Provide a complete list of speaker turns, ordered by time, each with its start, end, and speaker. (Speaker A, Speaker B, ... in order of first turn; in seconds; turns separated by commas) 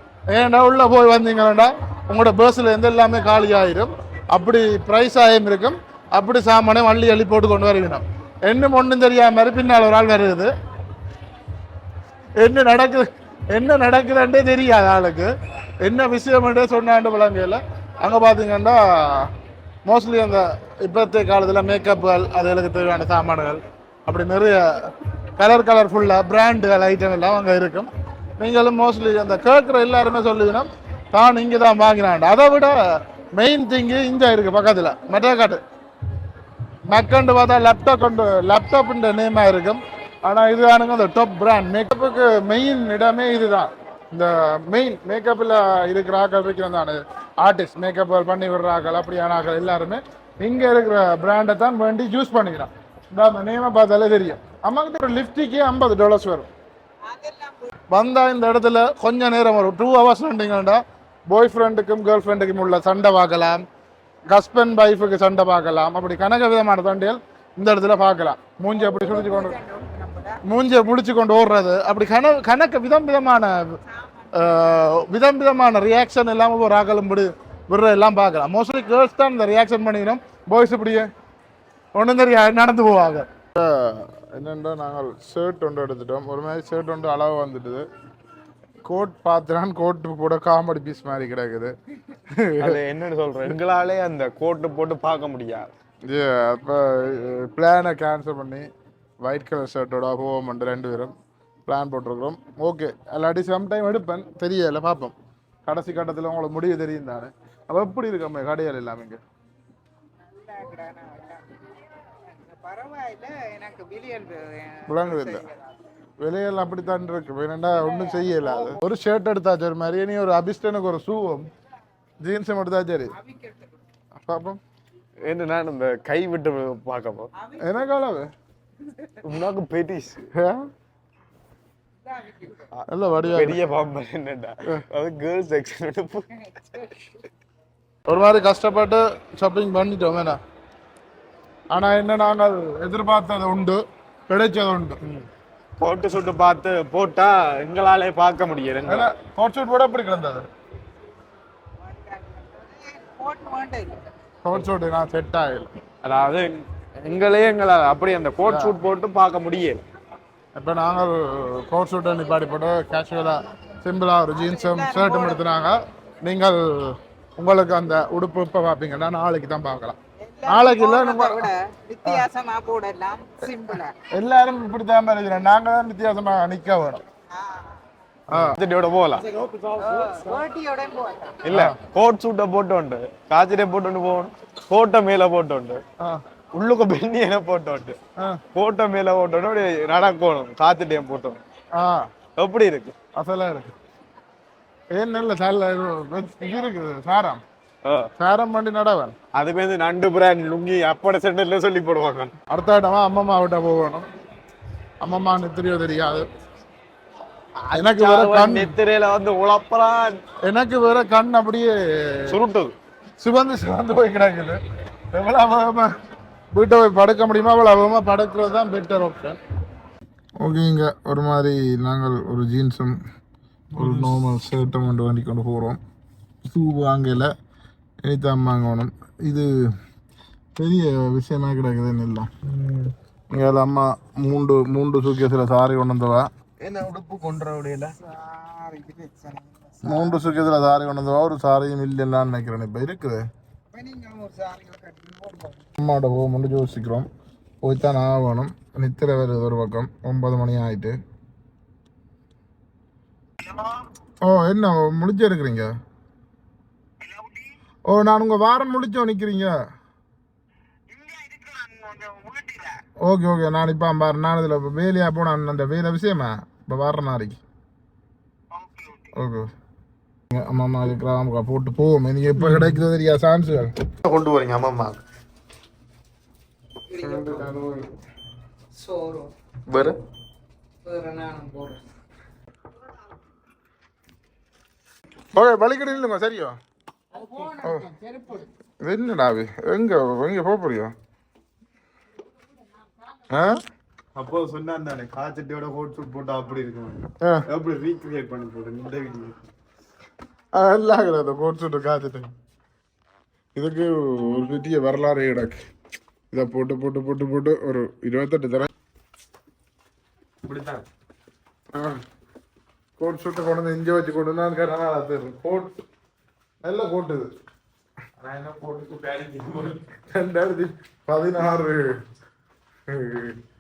Speaker A: 0.3-10.5, Speaker A: 12.4-15.3, Speaker A: 15.8-19.3, Speaker A: 19.8-32.8, Speaker A: 33.3-35.6, Speaker A: 36.9-56.5, Speaker B: 57.1-57.7, Speaker A: 57.9-63.6, Speaker A: 64.3-69.6, Speaker B: 68.7-70.4, Speaker A: 70.4-73.8, Speaker A: 74.3-81.1, Speaker A: 81.9-87.8, Speaker A: 88.8-91.7, Speaker A: 92.3-92.8, Speaker C: 92.6-95.7, Speaker A: 96.1-98.7, Speaker A: 99.2-101.1, Speaker A: 101.7-105.1, Speaker A: 105.7-109.2, Speaker B: 110.3-111.6, Speaker B: 112.2-115.8, Speaker A: 114.9-115.5, Speaker A: 116.2-121.5, Speaker B: 117.8-118.8, Speaker A: 122.2-123.1, Speaker B: 123.2-123.8, Speaker A: 124.2-124.6, Speaker C: 125.2-127.3, Speaker B: 127.4-127.6, Speaker A: 127.6-128.3, Speaker C: 129.2-130.2, Speaker A: 130.3-130.6, Speaker B: 132.0-132.7, Speaker C: 132.7-136.3, Speaker A: 132.9-133.6, Speaker A: 138.1-140.4, Speaker A: 141.7-145.0, Speaker C: 145.8-149.1, Speaker A: 148.8-150.5, Speaker B: 151.8-154.0, Speaker A: 154.4-155.7, Speaker C: 156.0-159.8, Speaker A: 158.4-158.8, Speaker A: 160.5-171.5, Speaker B: 164.4-165.4, Speaker B: 170.2-173.9, Speaker A: 174.1-177.0, Speaker B: 177.4-177.8, Speaker A: 178.3-178.6, Speaker C: 178.3-180.2, Speaker B: 179.4-181.4, Speaker C: 181.4-185.8, Speaker A: 181.5-181.8, Speaker C: 186.5-188.0, Speaker C: 188.5-191.4, Speaker A: 191.8-192.1, Speaker C: 192.4-192.9, Speaker A: 193.1-193.7, Speaker A: 194.9-197.4, Speaker A: 198.2-199.1, Speaker C: 199.3-202.3, Speaker A: 202.5-204.1, Speaker A: 205.0-206.2, Speaker C: 207.6-210.2, Speaker A: 207.7-208.7, Speaker A: 210.4-212.4, Speaker C: 212.3-212.7, Speaker A: 213.2-214.6, Speaker A: 215.1-215.9, Speaker A: 216.5-219.4, Speaker A: 220.4-222.9, Speaker C: 223.7-224.2, Speaker A: 223.8-225.8, Speaker A: 226.4-227.3, Speaker A: 228.0-229.5, Speaker A: 230.6-232.3, Speaker C: 232.4-232.9, Speaker A: 233.3-236.3, Speaker C: 236.6-237.9, Speaker B: 238.0-240.2, Speaker A: 239.8-243.2, Speaker B: 243.7-245.7, Speaker A: 245.8-247.1, Speaker A: 247.6-251.0, Speaker A: 254.2-255.7, Speaker C: 257.1-257.4, Speaker A: 257.9-259.6, Speaker C: 260.9-262.8, Speaker A: 263.0-267.4, Speaker A: 269.1-269.5, Speaker A: 270.3-273.7, Speaker C: 272.4-272.8, Speaker C: 274.0-275.0, Speaker B: 276.9-277.5, Speaker A: 277.0-277.9, Speaker B: 278.7-279.3, Speaker C: 279.7-280.0, Speaker B: 280.8-281.8, Speaker A: 285.3-286.6, Speaker B: 287.1-288.5, Speaker A: 287.6-287.9, Speaker A: 288.8-290.9, Speaker A: 293.3-293.6, Speaker C: 294.1-299.4, Speaker A: 300.5-302.3, Speaker A: 303.5-305.6, Speaker A: 306.3-308.7, Speaker C: 310.4-310.9, Speaker A: 311.7-312.0, Speaker A: 313.0-315.7, Speaker A: 316.6-317.3, Speaker C: 318.2-319.9, Speaker A: 320.1-321.9, Speaker A: 322.9-323.4